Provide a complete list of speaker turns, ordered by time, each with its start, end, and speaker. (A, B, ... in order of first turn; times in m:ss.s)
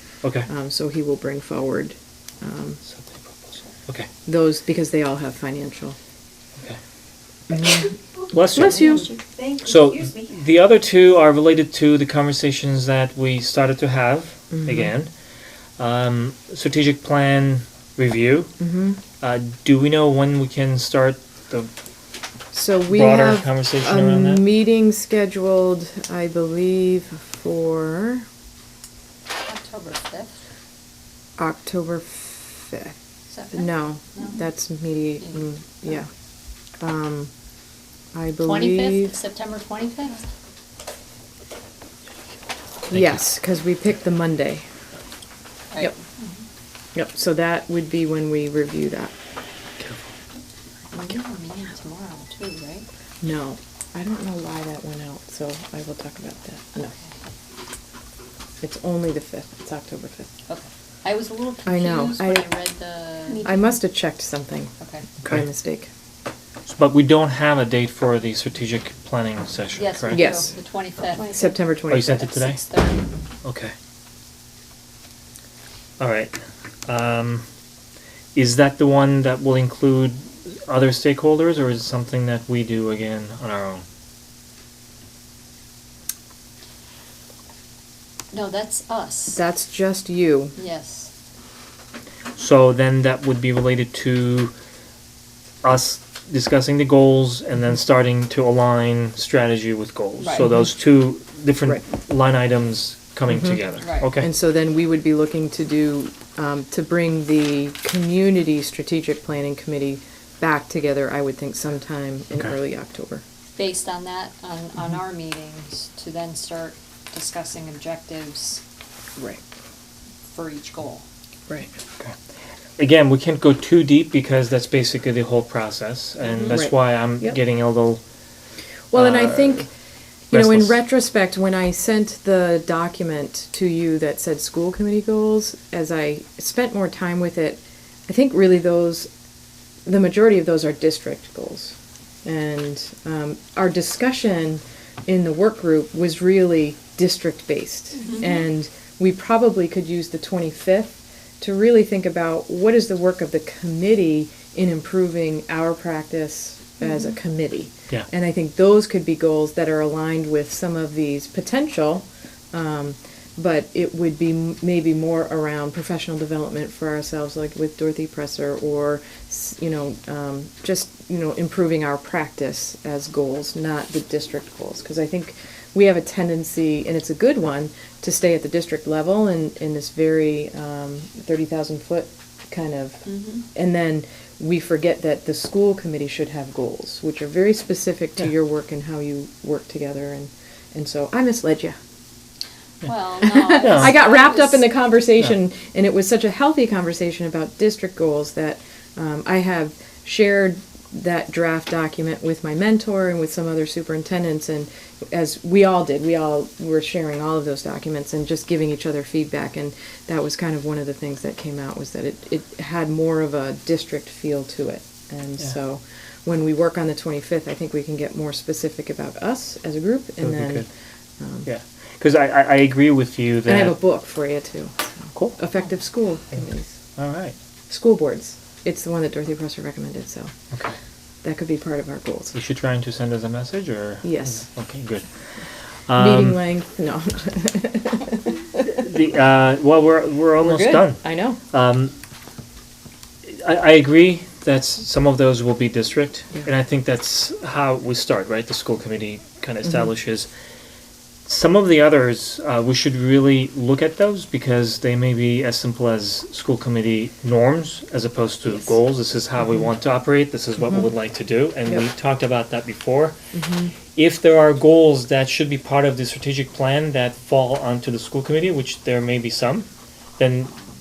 0:00.2-0:00.5 A
0:00.5-0:02.8 B
0:02.9-0:04.1 A
0:04.2-0:06.0 B
0:07.5-0:07.8 B
0:08.3-0:09.0 A
0:08.5-0:09.1 B
0:08.9-0:10.2 C
0:09.6-0:15.1 A
0:14.5-0:14.8 B
0:15.8-0:18.6 A
0:18.6-0:19.0 B
0:19.2-0:21.7 A
0:22.5-0:28.2 B
0:22.9-0:24.5 A
0:29.4-0:30.4 D
0:31.4-0:33.0 B
0:33.3-0:34.3 D
0:33.5-0:36.1 B
0:36.8-0:37.3 B
0:38.1-0:39.2 B
0:38.4-0:40.3 D
0:42.9-0:44.6 B
0:42.9-0:43.2 A
0:45.7-0:46.3 D
0:46.9-0:49.1 B
0:49.8-0:50.0 A
0:50.9-0:52.9 D
0:53.2-0:56.9 B
0:58.6-1:00.3 B
1:00.5-1:03.5 D
1:01.6-1:02.5 B
1:03.3-1:03.7 C
1:03.4-1:04.7 B
1:04.8-1:05.0 D
1:05.2-1:05.9 B
1:06.6-1:10.3 A
1:09.8-1:11.3 D
1:10.1-1:10.5 B
1:11.2-1:11.5 C
1:11.3-1:12.3 B
1:11.9-1:12.6 A
1:12.0-1:13.1 D
1:13.4-1:13.7 A
1:16.0-1:17.4 A
1:18.3-1:23.8 A
1:28.3-1:29.4 D
1:29.3-1:30.5 B
1:30.6-1:31.1 D
1:32.4-1:34.5 A
1:35.6-1:44.3 A
1:40.2-1:40.5 D
1:43.8-1:44.1 D
1:44.2-1:53.2 B
1:53.6-1:58.6 D
2:00.3-2:01.0 D
2:02.8-2:08.0 A
2:06.2-2:06.6 D
2:06.5-2:07.4 B
2:08.9-2:09.7 B
2:08.9-2:09.7 A
2:10.3-2:19.1 B
2:10.3-2:10.8 A
2:19.8-3:11.8 B
3:12.8-3:14.7 D
3:13.2-3:40.6 B
3:13.6-3:13.9 A
3:40.2-3:40.7 A
3:41.2-3:41.5 B
3:41.4-3:43.8 A
3:43.5-3:46.7 B
3:47.0-3:47.4 A
3:47.7-3:50.3 B
3:51.2-3:52.4 B
3:52.3-3:55.0 A
3:54.0-3:54.4 B
3:55.9-3:56.4 A
3:56.0-3:58.8 B
3:58.7-4:01.9 A
4:00.4-4:01.4 B
4:03.2-4:10.3 A
4:11.2-4:23.2 A
4:23.3-4:23.7 B
4:23.9-4:30.6 A